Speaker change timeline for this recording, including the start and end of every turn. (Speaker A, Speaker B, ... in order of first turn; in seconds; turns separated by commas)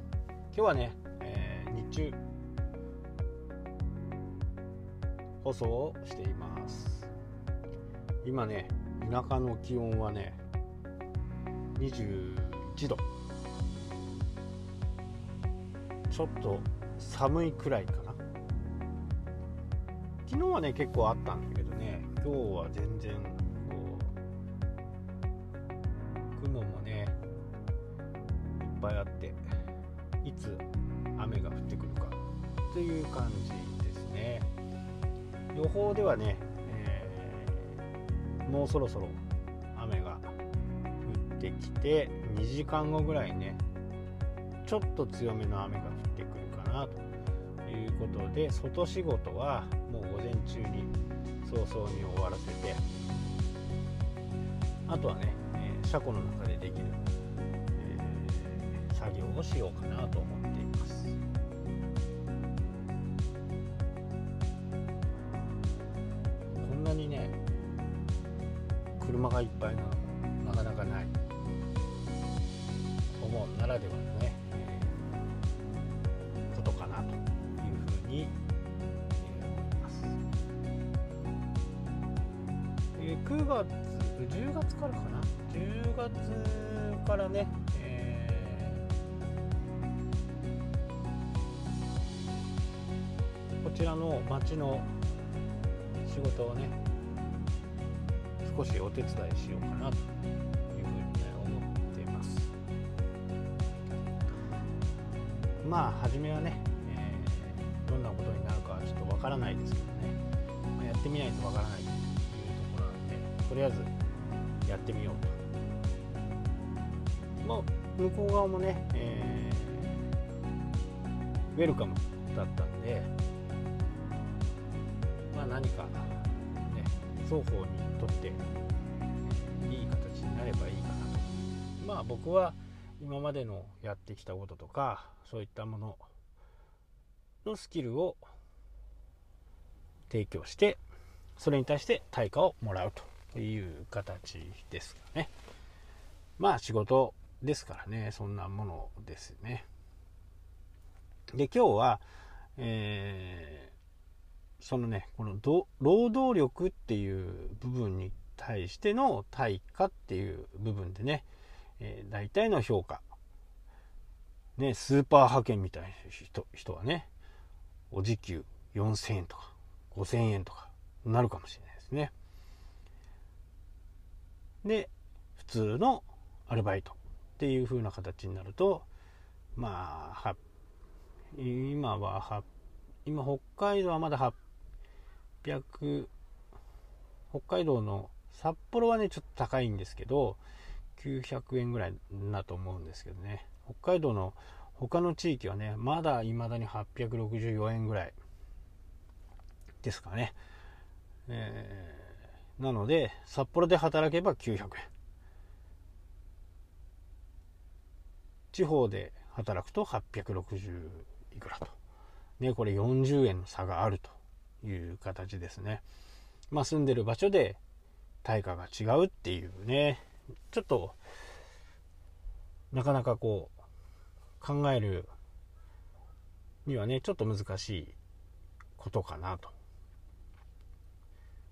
Speaker A: 0.5-2.2, Speaker A: 5.4-7.1, Speaker A: 8.2-10.4, Speaker A: 11.8-13.0, Speaker A: 16.1-18.2, Speaker A: 20.3-24.1, Speaker A: 26.3-27.2, Speaker A: 28.6-29.4, Speaker A: 30.2-30.6, Speaker A: 31.2-34.5, Speaker A: 35.5-37.8, Speaker A: 38.4-39.2, Speaker A: 39.7-40.4, Speaker A: 41.0-43.6, Speaker A: 44.6-47.0, Speaker A: 47.6-52.8, Speaker A: 54.9-57.0, Speaker A: 57.8-61.2, Speaker A: 66.5-67.4, Speaker A: 69.0-71.2, Speaker A: 73.2-75.0, Speaker A: 76.5-78.3, Speaker A: 79.2-80.2, Speaker A: 83.0-88.9, Speaker A: 93.6-94.9, Speaker A: 96.0-96.8, Speaker A: 98.4-100.1, Speaker A: 100.7-102.5, Speaker A: 105.6-110.2, Speaker A: 110.8-113.9, Speaker A: 114.6-115.4, Speaker A: 117.4-120.1, Speaker A: 121.5-123.1, Speaker A: 125.3-128.4, Speaker A: 129.3-136.1, Speaker A: 137.4-138.2, Speaker A: 140.1-140.8, Speaker A: 141.4-145.3, Speaker A: 146.4-149.7, Speaker A: 151.3-152.0, Speaker A: 152.6-153.7, Speaker A: 154.6-161.2, Speaker A: 161.8-163.0, Speaker A: 164.6-167.1, Speaker A: 167.9-172.1, Speaker A: 174.6-178.9, Speaker A: 179.6-180.4, Speaker A: 181.3-182.4, Speaker A: 183.1-184.3, Speaker A: 185.4-186.1, Speaker A: 187.3-190.4, Speaker A: 190.9-198.2, Speaker A: 199.8-200.3, Speaker A: 201.3-204.9, Speaker A: 208.5-211.8, Speaker A: 212.4-215.8, Speaker A: 216.5-217.6, Speaker A: 218.2-221.0, Speaker A: 222.7-223.5, Speaker A: 224.4-225.1, Speaker A: 226.6-228.0, Speaker A: 228.8-229.5